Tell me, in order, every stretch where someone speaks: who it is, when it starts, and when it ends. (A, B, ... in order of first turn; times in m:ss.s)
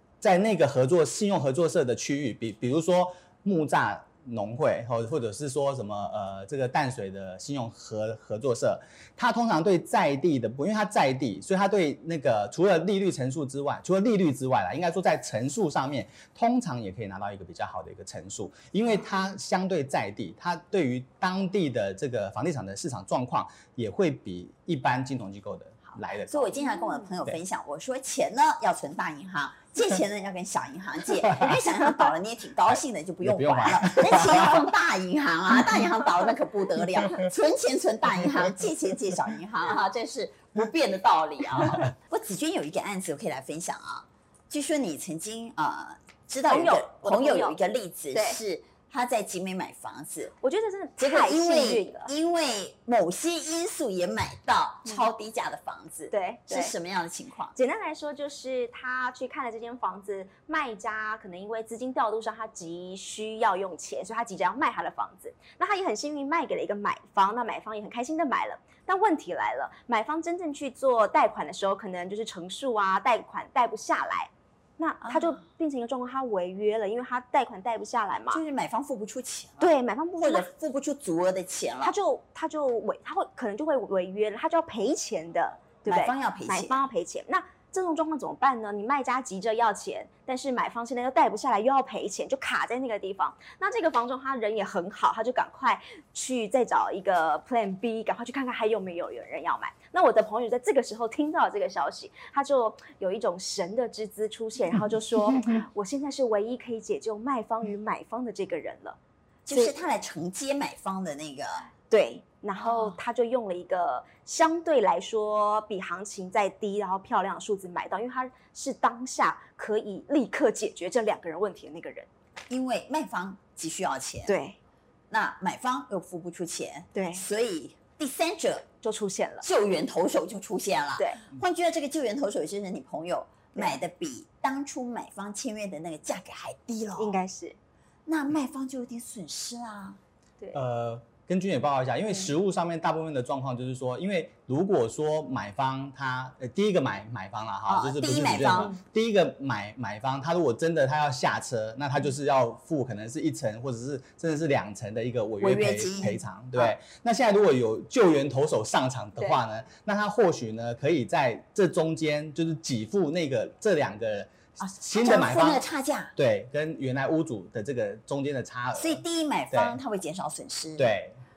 0:00.2-0:26.6 A
0:26.2-0:50.3 B
0:33.2-0:34.7 A
0:46.5-0:47.6 C
0:48.1-0:48.4 C
0:50.4-0:52.1 C
0:51.0-0:57.6 B
0:56.1-0:56.7 C
0:57.6-1:18.4 C
1:15.0-1:15.4 B
1:18.3-1:21.9 B
1:19.6-1:20.5 C
1:21.8-1:49.0 C
1:25.9-1:26.9 B
1:49.5-1:51.7 B
1:51.9-2:02.1 C
1:52.6-1:53.0 B
2:02.5-2:04.4 B
2:04.3-2:04.6 C
2:05.1-2:08.7 B
2:07.0-2:07.2 C
2:08.8-2:09.5 C
2:09.4-2:17.2 B
2:17.0-2:17.6 C
2:18.1-2:20.0 B
2:20.5-2:49.8 A
2:27.7-2:28.7 B
2:35.4-2:36.8 B
2:44.9-2:46.2 B
2:48.7-2:51.0 B
2:50.8-2:51.2 A